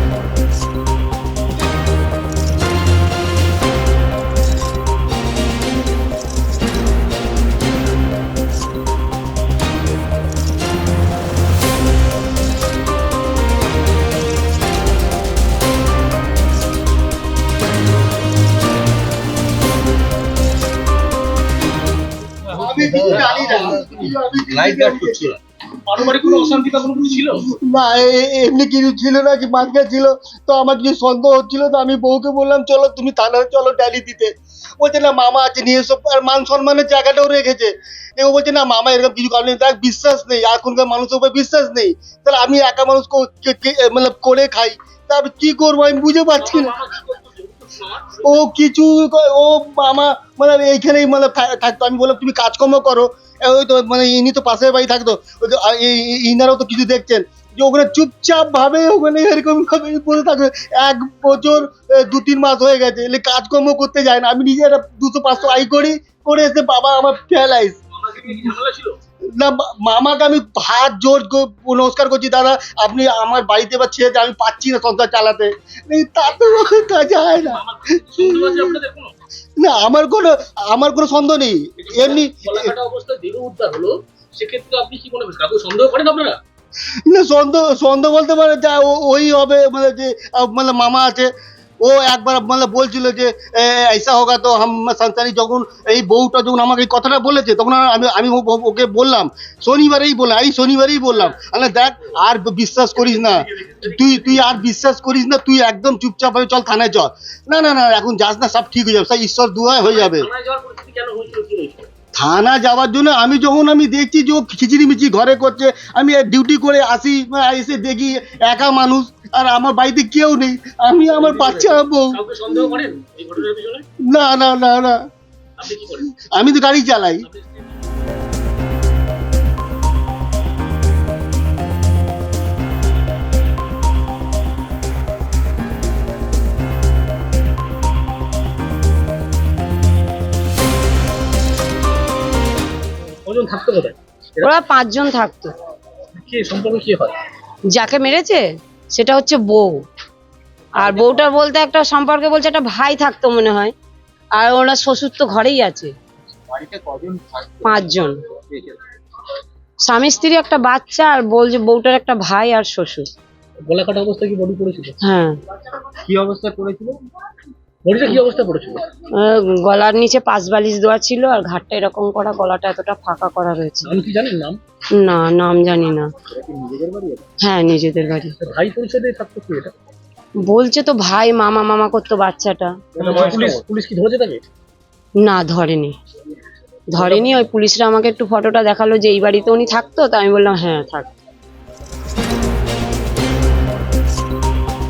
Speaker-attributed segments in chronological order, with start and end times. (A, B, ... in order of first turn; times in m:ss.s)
0:22.5-0:25.3 A
0:22.5-0:24.0 B
0:23.1-0:23.8 C
0:24.5-0:25.3 B
0:25.8-0:27.5 C
0:26.0-0:26.6 A
0:27.4-0:46.8 A
0:46.4-0:48.4 C
0:48.2-1:07.8 A
1:07.9-1:09.0 C
1:09.4-1:18.8 A
1:16.3-1:19.1 C
1:19.6-1:22.7 A
1:21.8-1:26.4 C
1:27.1-1:31.3 A
1:31.8-1:50.3 A
1:41.1-1:42.2 C
1:43.0-1:44.6 C
1:49.8-1:51.9 C
1:52.2-2:02.2 A
2:01.1-2:03.8 C
2:04.0-2:05.1 A
2:05.6-2:06.1 C
2:06.2-2:07.3 A
2:07.2-2:07.7 C
2:23.2-2:24.5 C
2:24.4-2:25.6 D
2:26.2-2:27.2 C
2:27.7-2:29.8 D
2:30.8-2:33.7 D
2:34.4-2:35.9 D
2:36.5-2:38.0 B
2:37.6-2:38.2 D
2:39.9-2:43.1 D
2:43.7-2:45.0 C
2:45.0-2:45.4 D
2:46.0-2:47.0 B
2:47.9-2:48.9 C
2:49.1-2:53.9 D
2:53.8-2:54.6 C
2:55.0-2:56.1 D
2:56.5-2:57.2 B
2:57.4-2:58.4 D
2:58.4-2:59.7 C
3:00.4-3:03.4 D
3:03.0-3:04.4 C
3:05.2-3:06.0 D
3:06.9-3:11.1 D
3:07.0-3:07.4 C